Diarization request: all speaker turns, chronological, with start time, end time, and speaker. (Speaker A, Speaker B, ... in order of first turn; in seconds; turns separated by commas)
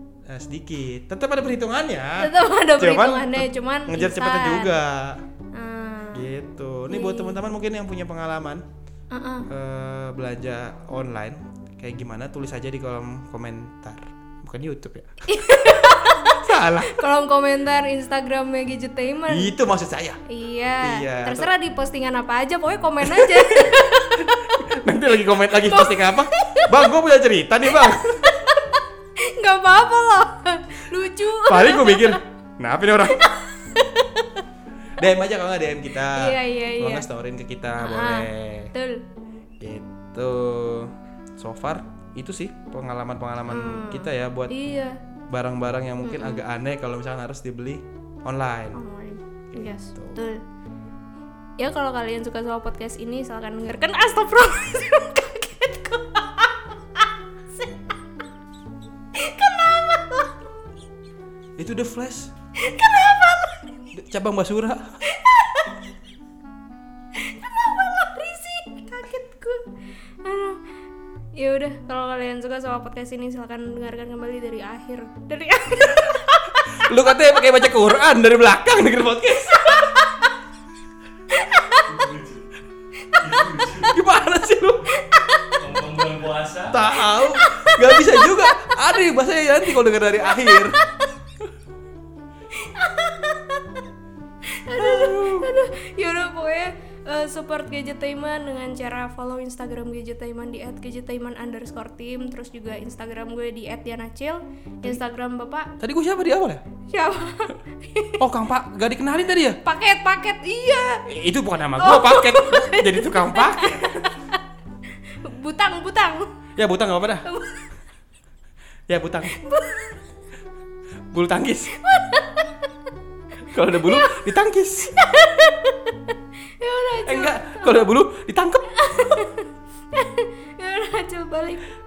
Speaker A: 0.3-5.2, Speaker B: 2.2-4.7, Speaker B: 5.5-6.3, Speaker A: 6.1-8.6, Speaker B: 6.9-7.4, Speaker B: 9.1-9.5, Speaker A: 9.5-17.0, Speaker B: 15.3-19.5, Speaker A: 19.3-20.2, Speaker B: 20.3-24.7, Speaker A: 20.8-21.5, Speaker A: 23.0-28.3, Speaker B: 25.5-26.8, Speaker B: 27.7-32.2, Speaker A: 31.4-33.2, Speaker B: 33.1-34.4, Speaker A: 35.0-38.7, Speaker B: 36.1-37.1, Speaker B: 37.8-39.0, Speaker A: 39.6-44.5, Speaker B: 43.5-45.0, Speaker A: 45.3-48.8, Speaker B: 46.0-46.4, Speaker B: 48.7-50.4, Speaker A: 49.5-50.2, Speaker B: 51.6-57.9, Speaker B: 59.1-60.4, Speaker A: 61.6-62.3, Speaker B: 62.5-63.8, Speaker A: 63.9-65.0, Speaker B: 65.0-65.8, Speaker B: 67.1-69.7, Speaker B: 70.2-70.6, Speaker B: 71.3-77.5, Speaker A: 76.7-79.9, Speaker B: 79.6-80.3, Speaker B: 81.3-81.9, Speaker C: 81.9-82.4, Speaker B: 83.0-83.7, Speaker C: 83.3-83.8, Speaker A: 83.5-84.8, Speaker B: 84.9-86.0, Speaker C: 85.6-86.7, Speaker A: 86.7-90.8, Speaker B: 86.9-88.7, Speaker B: 89.7-91.0, Speaker B: 92.5-93.8, Speaker B: 94.5-105.7, Speaker A: 94.8-95.5, Speaker A: 105.8-106.6, Speaker B: 106.9-108.2, Speaker A: 108.2-109.6, Speaker B: 109.6-111.0, Speaker A: 111.1-114.1, Speaker B: 111.8-114.4, Speaker B: 115.1-116.3, Speaker A: 116.6-117.3, Speaker B: 117.2-117.7, Speaker A: 118.9-119.3, Speaker B: 119.3-120.0, Speaker A: 121.1-121.7, Speaker B: 121.7-122.7, Speaker A: 123.5-125.0, Speaker B: 123.8-124.3, Speaker B: 124.9-127.8, Speaker A: 127.0-129.1, Speaker B: 128.7-131.7